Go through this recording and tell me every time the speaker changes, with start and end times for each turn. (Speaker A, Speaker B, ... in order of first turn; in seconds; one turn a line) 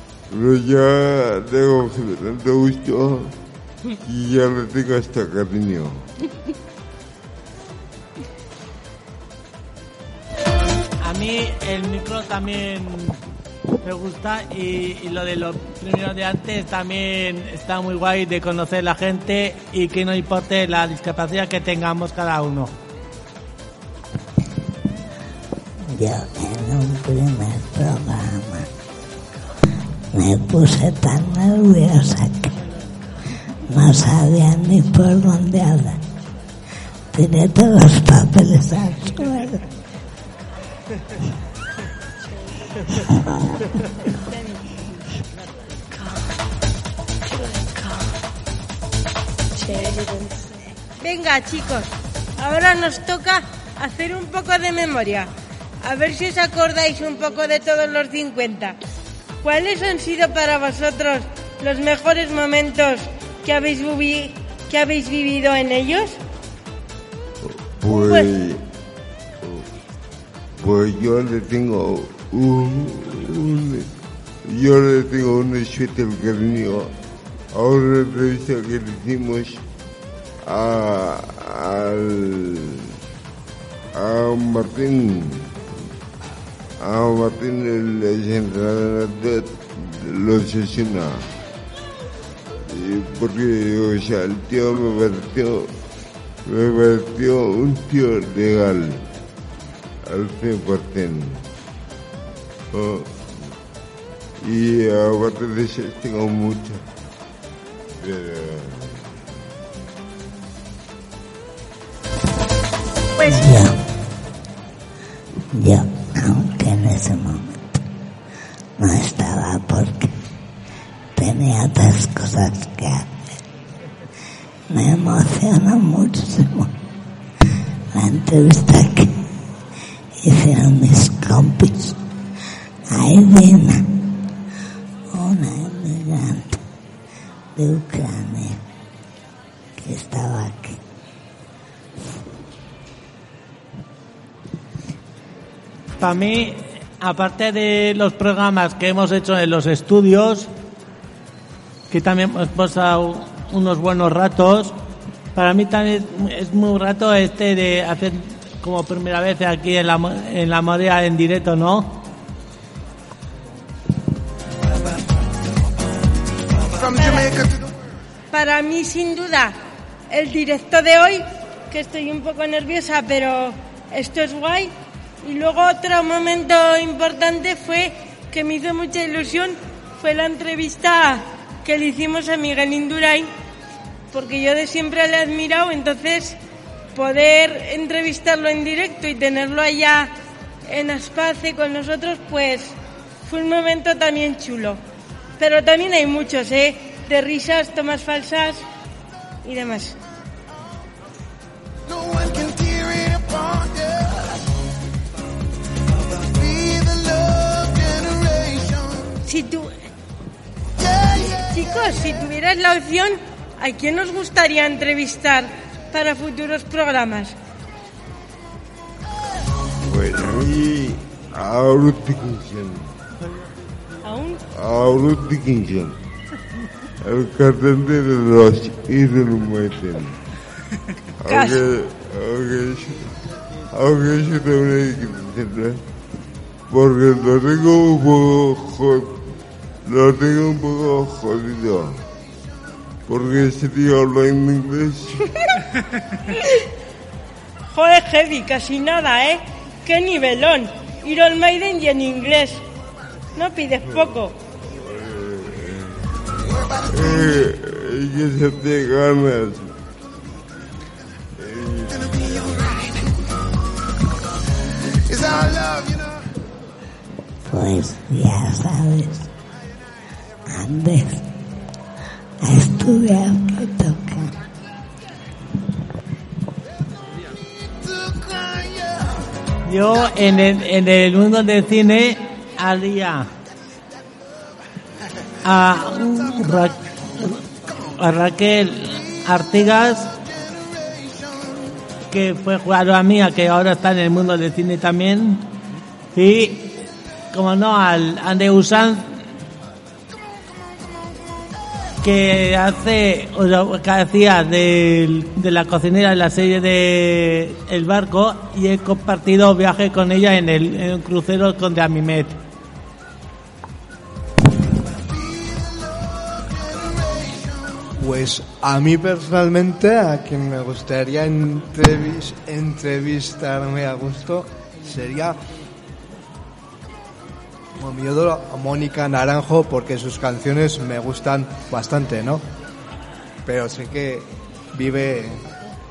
Speaker A: 0.3-3.3
Speaker A: 4.0-6.1
Speaker B: 11.0-13.2
Speaker B: 13.8-22.7
Speaker C: 25.9-28.7
Speaker C: 30.1-32.5
Speaker C: 33.7-36.0
Speaker C: 37.1-39.6
Speaker D: 51.0-55.3
Speaker D: 55.8-58.8
Speaker D: 59.4-66.2
Speaker A: 67.5-68.6
Speaker D: 67.9-68.3
Speaker A: 70.6-73.9
Speaker A: 74.5-76.9
Speaker A: 77.5-79.6
Speaker A: 80.5-82.8
Speaker A: 84.0-85.5
Speaker A: 86.8-91.3
Speaker A: 92.7-95.7
Speaker A: 96.5-99.0
Speaker A: 100.1-101.4
Speaker A: 102.7-103.3
Speaker A: 104.4-106.8
Speaker A: 108.0-109.0
Speaker C: 113.3-113.8
Speaker C: 115.5-117.8
Speaker C: 118.8-120.1
Speaker C: 121.2-123.2
Speaker C: 124.7-126.7
Speaker C: 127.9-129.1
Speaker C: 130.2-132.0
Speaker C: 132.9-133.9
Speaker C: 135.1-136.6
Speaker C: 137.6-138.6
Speaker C: 139.8-140.8
Speaker B: 146.0-150.5
Speaker B: 151.9-154.8
Speaker B: 155.4-162.0
Speaker D: 166.9-167.3
Speaker D: 168.3-169.6
Speaker D: 170.1-174.7
Speaker D: 175.2-183.3
Speaker D: 184.1-186.4
Speaker D: 186.9-190.1
Speaker D: 190.7-192.8
Speaker D: 193.3-194.8
Speaker D: 195.4-198.6
Speaker D: 199.4-200.0
Speaker D: 209.3-209.7
Speaker D: 211.2-217.4
Speaker A: 219.9-222.9
Speaker D: 224.1-224.4
Speaker A: 224.6-225.9
Speaker A: 227.0-230.2
Speaker A: 231.2-233.1
Speaker D: 231.3-231.6
Speaker A: 233.7-235.8
Speaker A: 236.7-239.2
Speaker A: 239.9-242.0
Speaker A: 243.1-245.2
Speaker D: 247.7-252.6
Speaker D: 253.4-254.3
Speaker A: 253.8-256.1
Speaker A: 256.8-259.7
Speaker A: 261.4-262.8
Speaker C: 267.5-269.3
Speaker C: 270.5-271.3
Speaker C: 272.4-274.3
Speaker B: 279.7-283.3
Speaker B: 285.4-286.8
Speaker B: 288.0-290.1
Speaker B: 292.1-295.4
Speaker B: 296.1-296.7
Speaker B: 297.3-299.2
Speaker B: 302.0-312.4
Speaker E: 318.0-325.4
Speaker E: 327.8-332.4
Speaker E: 333.5-335.4